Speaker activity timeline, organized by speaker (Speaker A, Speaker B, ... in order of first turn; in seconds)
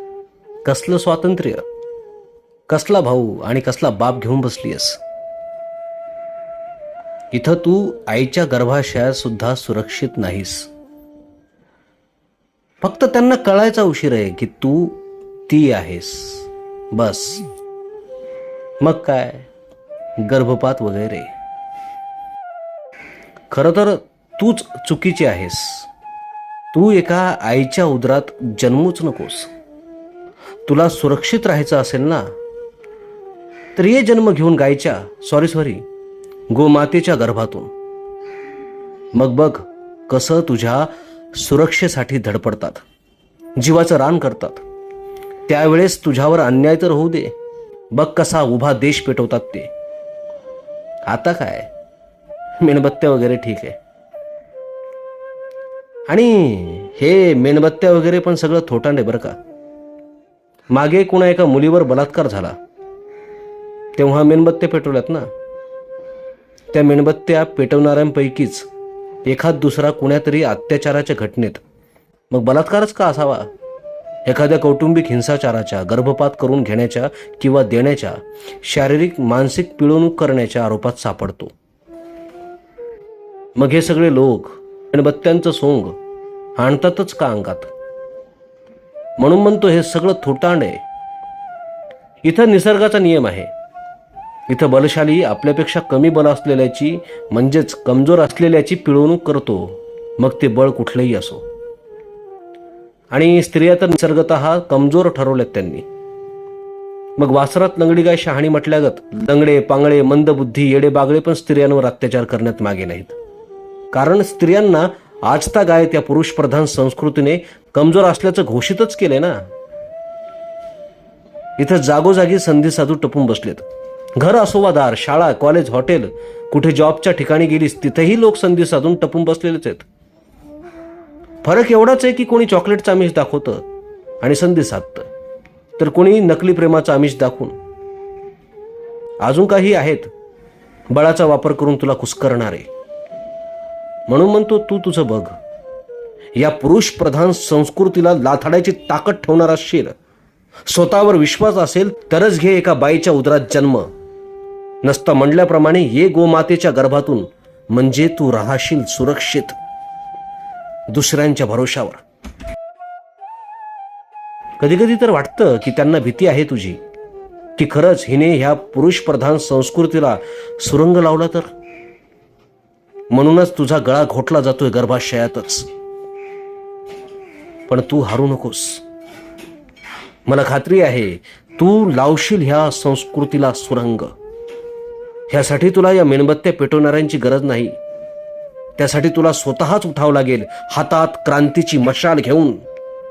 Speaker A: 0.7-1.6, 2.7-5.0, 7.3-10.7, 12.8-17.4, 18.8-19.5, 20.2-21.3, 23.5-25.9, 26.7-29.5, 30.7-32.3, 33.8-35.8, 36.5-37.7, 39.1-42.8, 43.6-44.6, 45.5-47.3, 47.9-49.7, 51.1-51.7, 52.6-53.8, 56.1-59.4, 60.7-62.6, 64.0-65.3, 66.7-68.7, 69.3-71.6, 72.3-73.5, 74.3-81.5, 83.6-86.0, 86.6-87.7, 89.2-90.8, 92.2-93.5, 94.5-101.4, 103.1-105.9, 107.2-113.2, 113.9-119.5, 121.6-129.9, 131.4-133.6, 134.2-135.1, 135.8-137.6, 139.2-140.1, 140.9-142.7, 144.1-145.4, 146.4-149.9, 150.7-153.9, 154.8-159.6, 160.9-162.0, 164.6-166.8, 167.6-171.5, 173.1-175.7, 177.7-178.8, 180.3-184.1, 185.3-187.8, 188.8-192.6